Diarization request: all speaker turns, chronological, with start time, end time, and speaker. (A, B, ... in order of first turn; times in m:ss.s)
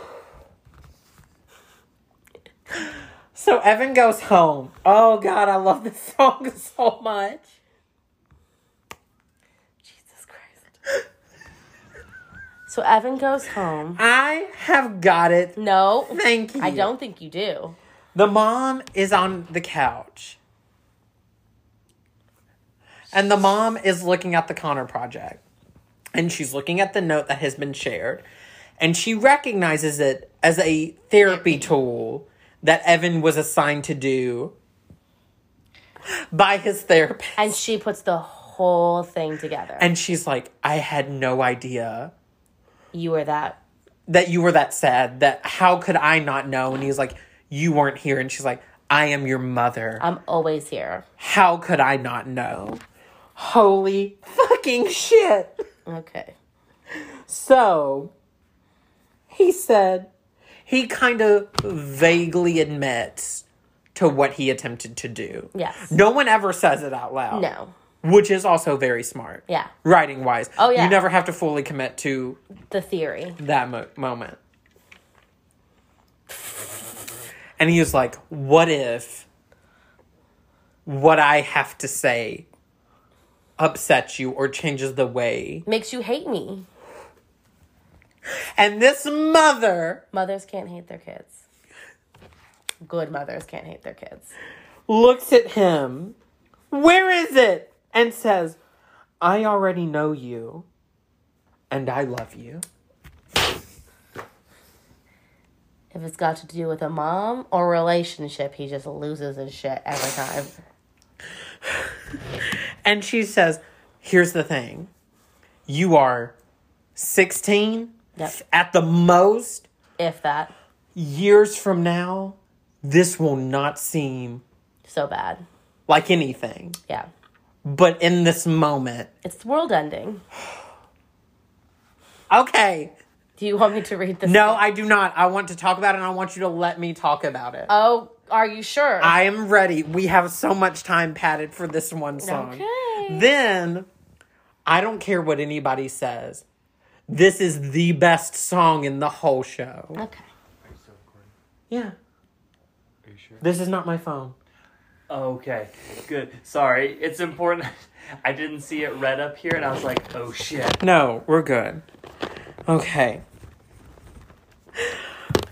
0:03.3-0:07.4 A
0:09.8-0:10.7 B
0:12.7-0:14.0 B
0:14.0-0:15.6 A
0:15.6-0:17.8 B
0:16.1-0:16.9 A
0:18.1-0:20.4 A
0:23.1-0:25.4 A
0:26.1-0:28.2 A
0:28.8-0:34.6 A
0:31.2-0:31.7 B
0:36.3-0:37.6 A
0:37.4-0:39.9 B
0:39.8-0:42.1 A
0:42.9-0:43.6 B
0:44.1-0:50.0 A
0:50.0-0:51.0 B
0:51.2-0:52.8 A
0:53.4-0:55.6 A
0:55.8-0:56.3 B
0:57.3-0:58.1 A
0:59.3-1:00.1 A
1:00.7-1:03.4 A
1:03.9-1:07.5 A
1:05.5-1:05.9 B
1:07.3-1:07.7 B
1:08.0-1:12.4 A
1:10.6-1:11.0 B
1:12.7-1:13.4 B
1:13.4-1:14.4 A
1:17.6-1:19.3 A
1:20.8-1:22.4 A
1:23.6-1:25.6 A
1:25.6-1:26.6 B
1:28.6-1:30.0 A
1:30.1-1:31.4 B
1:32.8-1:34.3 B
1:34.9-1:36.2 A
1:36.7-1:38.6 A
1:39.2-1:40.6 A
1:41.7-1:42.6 A
1:45.9-1:50.6 B
1:51.6-1:54.9 A
1:55.7-1:56.3 A
1:57.0-1:59.7 A
2:00.0-2:00.5 B
2:00.9-2:04.4 A
2:04.8-2:05.4 B
2:05.9-2:06.8 A
2:07.6-2:09.1 A
2:09.2-2:10.2 B
2:12.3-2:12.9 A
2:13.4-2:14.6 B
2:14.2-2:17.7 A
2:17.7-2:19.1 B
2:19.0-2:23.9 A
2:22.2-2:23.3 B
2:24.6-2:26.4 A
2:27.1-2:30.0 A
2:30.0-2:30.3 B
2:30.6-2:31.3 C
2:31.7-2:32.0 A
2:33.0-2:33.4 C
2:33.4-2:34.3 A
2:35.1-2:40.8 C
2:40.8-2:41.8 A
2:42.7-2:43.2 A